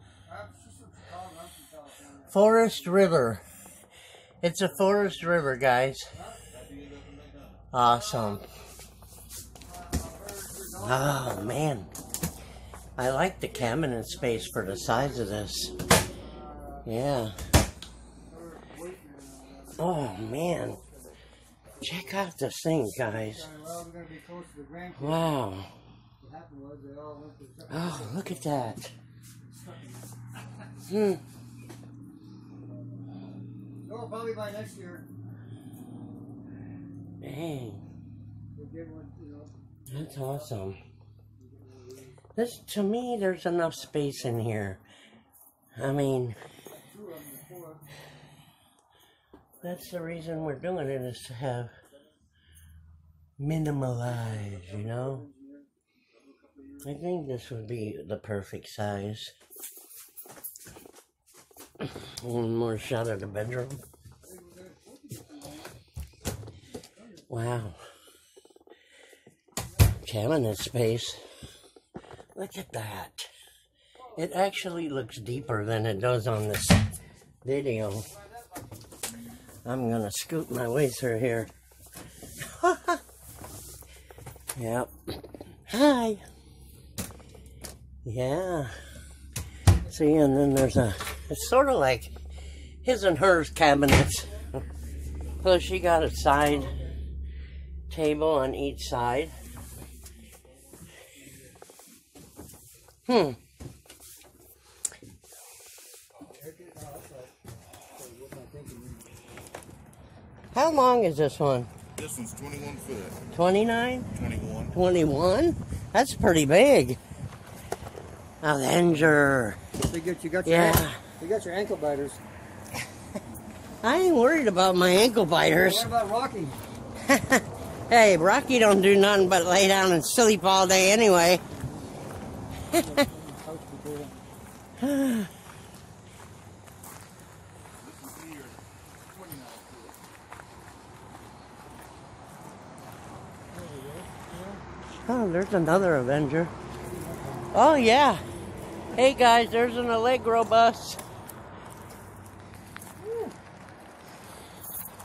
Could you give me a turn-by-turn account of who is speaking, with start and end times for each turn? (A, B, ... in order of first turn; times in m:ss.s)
0:00.2-0:02.4 A
0:02.3-0:03.4 B
0:04.4-0:06.1 B
0:06.1-0:06.4 A
0:06.5-0:07.6 C
0:07.7-0:08.4 B
0:07.9-0:08.4 A
0:09.6-0:11.6 A
0:10.8-0:11.9 B
0:13.0-0:15.8 B
0:13.7-0:15.2 A
0:16.2-0:16.8 A
0:16.8-0:17.3 B
0:18.3-0:21.0 A
0:19.8-0:20.8 B
0:21.8-0:22.0 A
0:21.8-0:23.4 B
0:23.1-0:25.3 A
0:25.0-0:25.7 B
0:26.2-0:28.5 A
0:27.7-0:28.9 B
0:29.4-0:30.0 A
0:30.9-0:31.2 B
0:33.8-0:35.0 A
0:37.2-0:37.8 B
0:38.5-0:40.4 A
0:39.9-0:40.8 B
0:41.4-0:42.2 A
0:42.4-0:44.8 B
0:45.8-0:46.3 B
0:46.7-0:47.8 A
0:49.6-0:51.7 B
0:53.4-0:55.2 B
0:54.1-0:55.7 A
0:56.8-0:59.3 B
1:01.8-1:03.8 B
1:04.2-1:05.7 A
1:07.0-1:07.2 A
1:07.3-1:07.8 B
1:10.0-1:11.2 B
1:12.3-1:13.3 B
1:14.1-1:16.8 B
1:17.4-1:18.1 B
1:19.6-1:21.5 B
1:22.4-1:23.0 B
1:24.6-1:24.9 B
1:25.7-1:26.2 B
1:28.0-1:28.7 B
1:29.8-1:32.1 B
1:32.8-1:34.5 B
1:35.4-1:36.8 B
1:36.3-1:37.0 A
1:37.9-1:39.3 B
1:43.1-1:43.4 B
1:46.2-1:47.3 A
1:48.0-1:49.1 A
1:50.5-1:51.7 B
1:52.0-1:53.2 C
1:53.3-1:54.1 B
1:54.1-1:54.7 C
1:54.7-1:57.0 B
1:58.4-1:59.6 B
1:59.8-2:02.2 A
2:00.4-2:01.0 B
2:03.8-2:05.9 B
2:05.6-2:06.6 A
2:07.1-2:11.4 B
2:12.7-2:14.2 A
2:14.8-2:15.3 B
2:17.8-2:20.0 C
2:23.5-2:24.6 A
2:25.0-2:26.5 B
2:27.1-2:27.4 A
2:27.5-2:28.2 B
2:28.9-2:31.0 B
2:33.0-2:33.3 A